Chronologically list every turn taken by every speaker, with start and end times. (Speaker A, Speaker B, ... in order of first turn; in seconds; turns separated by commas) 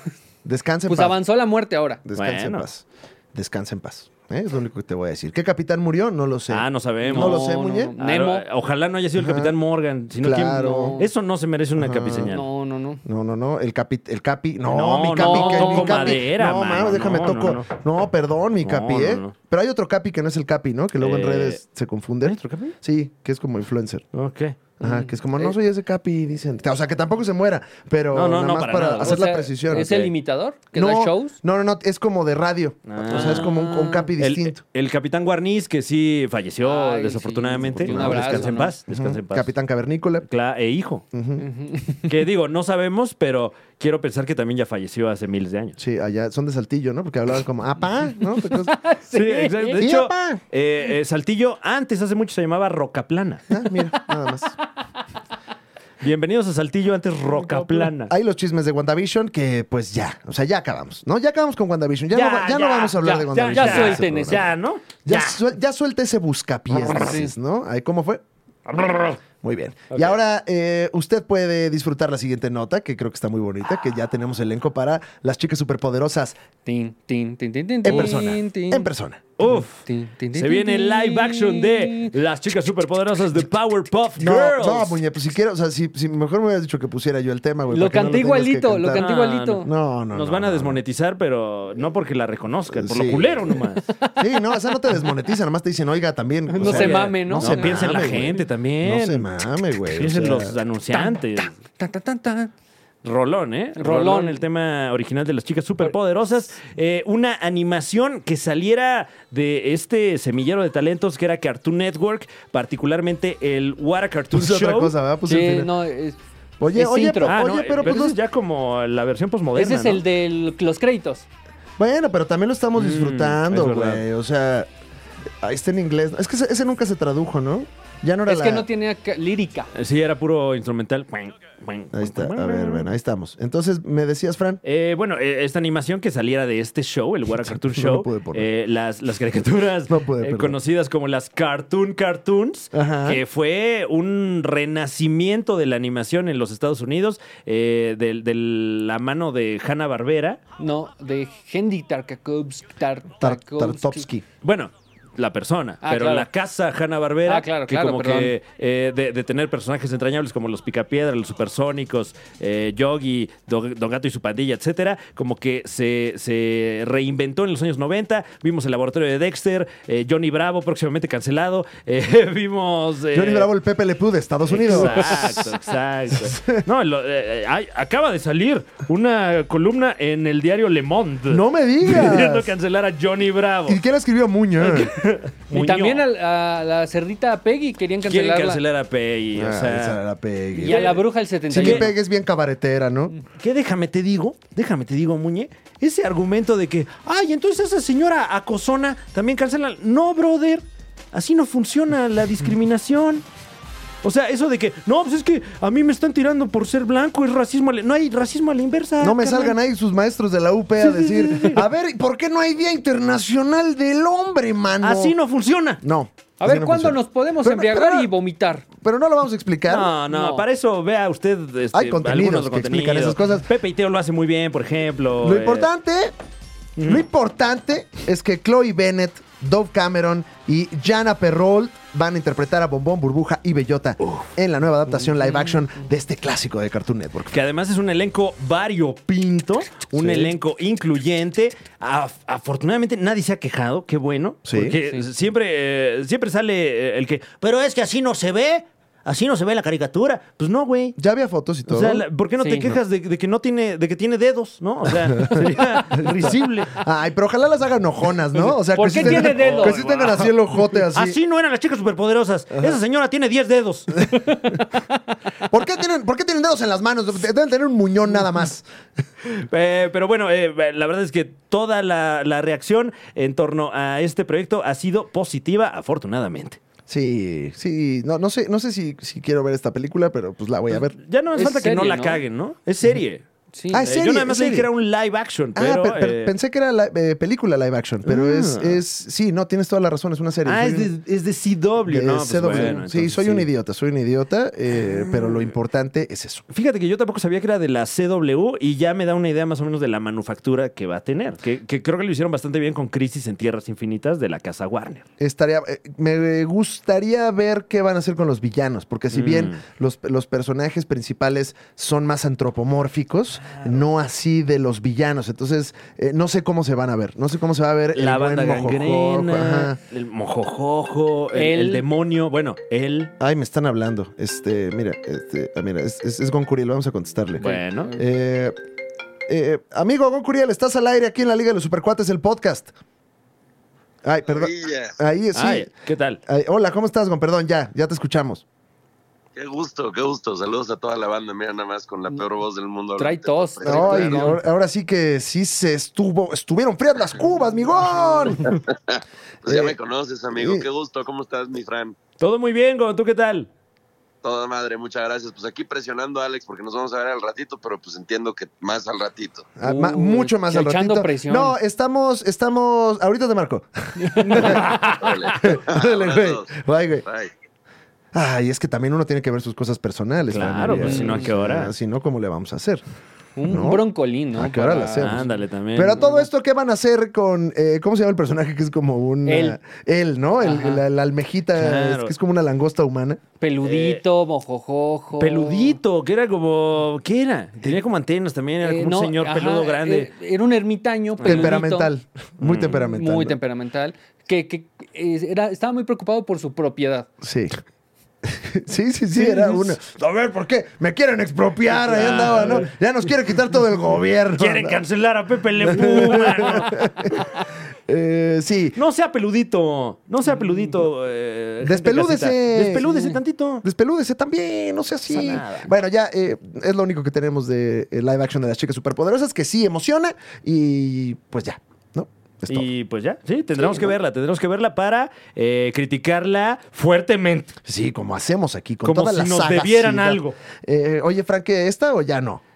Speaker A: 0.4-1.2, Speaker B: 0.9-2.0, Speaker A: 2.0-7.9, Speaker C: 2.1-2.6, Speaker C: 6.5-7.5, Speaker B: 7.1-8.4, Speaker C: 8.0-12.4, Speaker A: 9.2-9.5, Speaker A: 10.2-11.0, Speaker B: 10.5-11.1, Speaker A: 11.8-12.4, Speaker B: 12.2-13.0, Speaker A: 13.0-24.0, Speaker C: 14.7-17.7, Speaker B: 15.2-16.2, Speaker C: 18.6-19.3, Speaker C: 21.0-21.6, Speaker C: 22.2-22.7, Speaker C: 24.1-24.6, Speaker A: 24.8-29.9, Speaker C: 28.1-30.1, Speaker B: 29.0-31.4, Speaker A: 30.7-34.6, Speaker C: 32.9-39.5, Speaker B: 33.1-34.1, Speaker B: 36.6-38.7, Speaker A: 37.8-40.2, Speaker C: 40.3-41.0, Speaker A: 41.1-41.4, Speaker B: 41.4-42.0, Speaker C: 42.1-45.8, Speaker A: 45.8-48.7, Speaker B: 48.5-49.8, Speaker C: 49.1-53.5, Speaker A: 49.8-50.4, Speaker A: 53.5-54.5, Speaker C: 56.0-58.1, Speaker A: 58.0-64.5, Speaker C: 62.1-65.4, Speaker B: 63.0-64.4, Speaker A: 65.0-68.2, Speaker B: 66.8-67.3, Speaker C: 68.7-69.2, Speaker A: 69.4-76.4, Speaker C: 69.9-70.2, Speaker B: 76.7-78.9, Speaker A: 77.8-79.3, Speaker C: 79.4-85.0, Speaker B: 79.8-82.1, Speaker A: 84.2-90.8, Speaker B: 87.7-89.7, Speaker C: 88.9-93.8, Speaker A: 92.7-93.6, Speaker A: 94.2-100.5, Speaker B: 96.5-98.0, Speaker C: 96.6-99.3, Speaker C: 99.8-101.5, Speaker B: 100.9-102.5, Speaker C: 103.0-114.9, Speaker B: 103.8-104.4, Speaker A: 114.3-115.7, Speaker B: 115.2-116.2, Speaker A: 116.6-118.2, Speaker B: 116.7-117.4, Speaker C: 117.2-120.0, Speaker B: 119.5-121.2, Speaker A: 121.8-124.7, Speaker C: 122.8-124.0, Speaker A: 125.4-128.7, Speaker B: 128.2-129.7, Speaker C: 129.7-132.9, Speaker A: 131.9-134.6, Speaker C: 134.6-150.4, Speaker A: 137.7-138.5, Speaker A: 139.9-140.6, Speaker A: 142.7-143.2, Speaker B: 150.6-154.1, Speaker A: 153.2-154.2, Speaker C: 154.4-173.5, Speaker B: 155.8-156.3, Speaker B: 157.2-158.3, Speaker A: 173.1-175.5, Speaker C: 174.5-183.8, Speaker A: 176.2-176.6, Speaker A: 181.3-182.5, Speaker A: 183.7-184.9, Speaker C: 184.6-186.0, Speaker B: 185.5-188.6, Speaker C: 188.0-190.0, Speaker A: 189.3-193.1, Speaker B: 190.5-191.9, Speaker C: 190.7-191.9, Speaker C: 193.4-203.2, Speaker C: 204.0-209.6, Speaker A: 209.0-215.1, Speaker C: 210.8-211.6, Speaker C: 214.8-215.8, Speaker A: 215.8-218.1, Speaker B: 216.4-218.7, Speaker A: 218.8-219.9, Speaker C: 219.7-225.7, Speaker B: 220.1-220.4, Speaker A: 221.7-223.5, Speaker A: 225.2-226.1, Speaker C: 226.8-227.0, Speaker A: 226.8-237.4, Speaker C: 237.3-251.0, Speaker A: 239.9-240.3, Speaker A: 244.4-244.7, Speaker B: 244.7-245.1, Speaker A: 251.0-252.0, Speaker C: 251.7-256.8, Speaker B: 252.4-252.7, Speaker A: 256.8-261.2, Speaker B: 258.7-259.8, Speaker C: 258.9-260.4, Speaker C: 260.9-264.4, Speaker A: 265.5-268.6, Speaker C: 269.2-276.6, Speaker A: 276.9-280.9, Speaker C: 281.0-283.2, Speaker B: 281.3-282.2, Speaker B: 283.5-283.9, Speaker A: 283.7-284.7, Speaker C: 283.7-286.3, Speaker A: 285.5-290.9, Speaker C: 288.1-288.8, Speaker C: 290.4-293.5, Speaker A: 291.9-296.4, Speaker C: 294.8-295.5, Speaker C: 296.5-305.1, Speaker A: 305.2-319.8, Speaker C: 309.1-309.6, Speaker C: 313.4-313.7, Speaker C: 317.9-323.1, Speaker B: 321.3-321.8, Speaker A: 323.2-328.6, Speaker C: 327.4-327.9, Speaker A: 329.3-332.7, Speaker A: 334.0-335.7, Speaker D: 334.3-335.0, Speaker C: 335.3-336.2, Speaker A: 336.2-338.4, Speaker D: 339.3-344.4, Speaker B: 343.0-344.4, Speaker A: 343.6-348.6, Speaker D: 348.4-351.9, Speaker A: 349.4-349.8, Speaker A: 350.3-350.7, Speaker C: 352.2-353.5, Speaker D: 354.2-359.5, Speaker A: 359.6-367.0, Speaker B: 359.6-361.5, Speaker B: 364.0-364.4, Speaker C: 364.2-365.5, Speaker D: 364.4-367.3, Speaker A: 368.1-372.8, Speaker C: 370.3-371.7, Speaker B: 370.8-371.3, Speaker B: 373.4-375.3, Speaker A: 373.4-383.2, Speaker C: 375.0-376.0, Speaker B: 375.9-376.2, Speaker B: 379.2-379.6, Speaker B: 380.4-380.8, Speaker C: 381.5-382.1, Speaker B: 383.4-385.8, Speaker C: 383.6-384.0, Speaker C: 385.2-390.1, Speaker B: 388.6-391.9, Speaker C: 391.2-391.6, Speaker A: 391.2-393.4, Speaker C: 392.4-392.8, Speaker B: 392.6-397.1, Speaker A: 397.2-397.6, Speaker A: 398.2-404.8, Speaker C: 401.9-402.7, Speaker C: 404.4-407.1, Speaker A: 405.6-407.2, Speaker A: 407.9-408.8, Speaker C: 408.8-413.6, Speaker A: 411.6-412.9, Speaker B: 412.9-413.2, Speaker A: 413.6-422.7, Speaker C: 415.1-415.7, Speaker C: 422.5-427.6, Speaker A: 423.6-423.9, Speaker A: 427.6-432.4, Speaker C: 428.8-430.3